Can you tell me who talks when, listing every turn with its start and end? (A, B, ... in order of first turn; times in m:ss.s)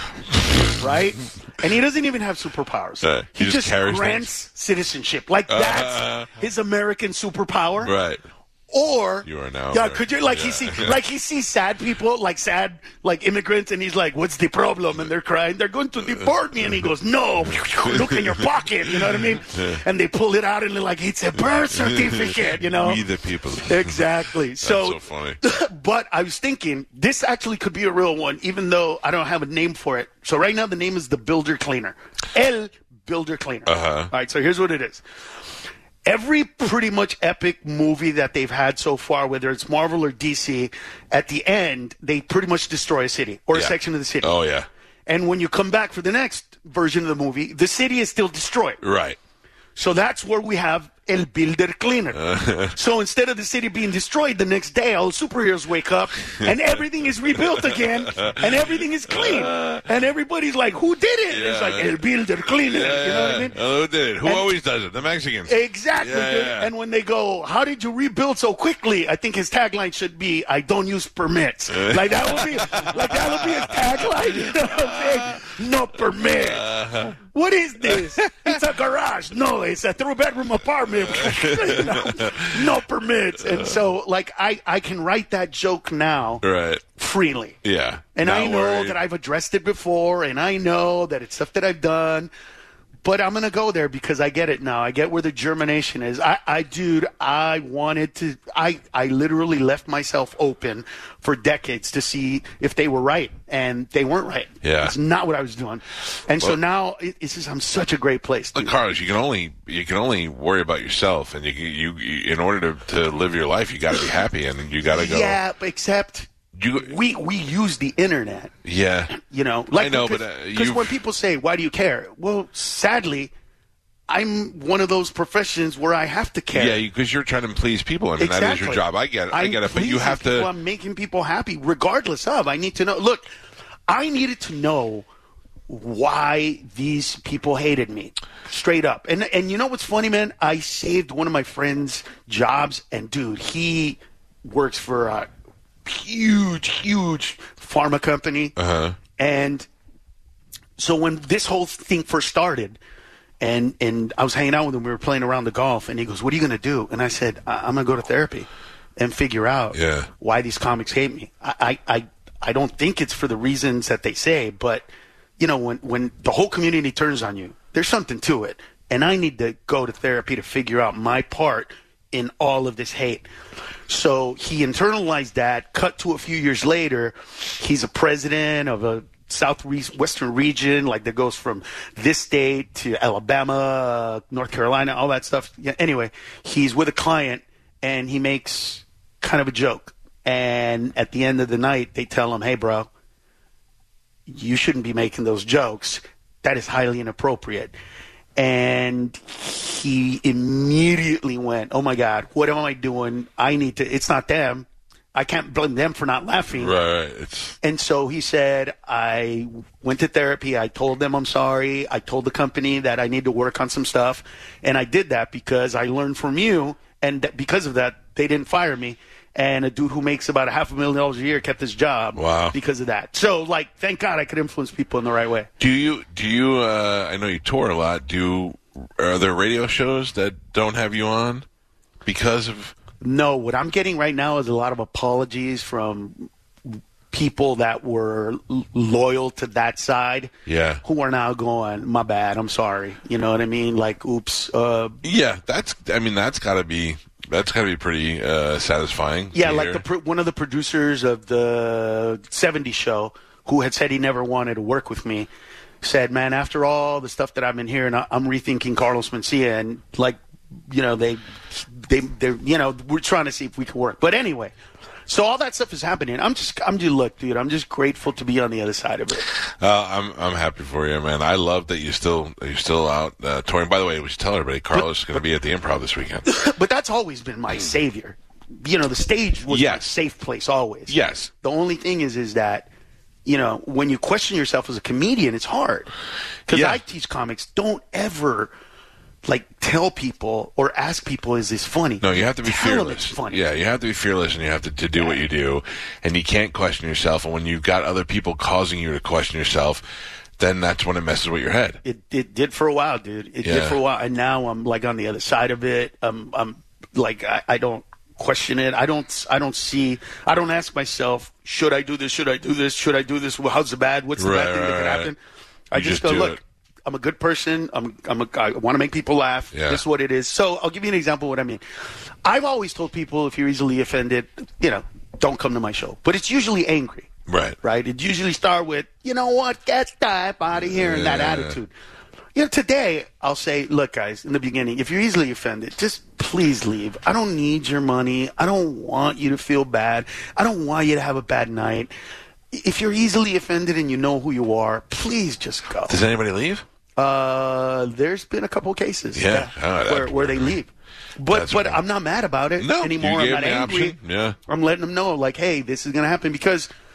0:00.3-0:00.8 A
0:00.6-0:07.9 B
0:03.0-0:04.3 A
0:05.5-0:06.3 A
0:07.8-0:08.2 A
0:08.7-0:23.0 B
0:09.2-0:11.0 A
0:16.2-0:16.8 A
0:17.4-0:19.8 A
0:21.4-0:25.4 A
0:23.6-0:35.0 B
0:33.6-0:34.1 A
0:36.0-0:44.4 B
0:43.5-0:44.7 A
0:45.1-0:48.8 B
0:48.8-0:49.2 A
0:49.8-1:03.6 B
0:52.1-0:52.8 A
0:56.4-0:56.7 A
0:57.2-0:59.9 A
1:01.3-1:06.7 A
1:04.2-1:04.5 B
1:05.4-1:16.7 B
1:11.7-1:15.5 A
1:16.2-1:17.2 A
1:17.3-1:26.4 B
1:17.8-1:18.6 A
1:20.9-1:22.8 A
1:23.4-1:23.8 A
1:26.4-1:26.8 A
1:27.0-1:27.6 B
1:27.6-1:29.0 A
1:28.1-1:32.3 B
1:33.0-1:48.7 B
1:44.6-1:44.9 A
1:48.5-1:55.4 A
1:54.9-1:58.5 B
1:56.5-1:57.0 A
1:58.6-1:59.2 A
1:59.1-2:03.3 B
1:59.7-2:01.0 A
2:04.1-2:06.8 B
2:06.5-2:10.5 A
2:08.2-2:13.3 B
2:13.9-2:15.0 B
2:15.7-2:25.3 B
2:25.8-2:28.5 B
2:28.6-2:29.0 A
2:29.2-2:29.7 B
2:30.8-2:32.8 B
2:33.4-2:44.9 B
2:39.7-2:40.1 A
2:45.4-2:53.2 B
2:53.9-3:12.9 B
3:14.3-3:17.7 B
3:18.4-3:26.7 B
3:26.5-3:27.6 A
3:27.6-3:45.5 B
3:42.2-3:42.6 A
3:45.6-3:51.4 A
3:52.0-3:52.8 A
3:53.0-4:00.3 B
4:00.4-4:00.8 A
4:00.8-4:05.0 B
4:05.0-4:09.8 A
4:09.3-4:15.3 B
4:15.8-4:24.5 B
4:25.1-4:29.3 B
4:29.3-4:36.2 A
4:36.2-4:42.7 B
4:39.5-4:39.9 A
4:40.9-4:41.3 A
4:43.2-4:45.9 B
4:46.5-4:48.5 B
4:46.5-4:46.8 A
4:49.2-4:53.4 B
4:52.0-4:59.8 A
5:00.4-5:01.8 A
5:01.8-5:15.2 B
5:03.4-5:03.8 A
5:14.2-5:15.1 A
5:15.7-5:21.6 B
5:15.7-5:16.4 A
5:19.5-5:19.8 A
5:22.2-5:27.1 B
5:27.3-5:27.6 A
5:27.6-5:31.7 B
5:30.6-5:31.6 A
5:32.4-5:41.9 B
5:42.5-5:46.0 B
5:45.9-5:46.6 A
5:47.0-5:56.7 B
5:49.1-5:50.6 A
5:51.3-5:51.8 A
5:52.6-5:54.4 A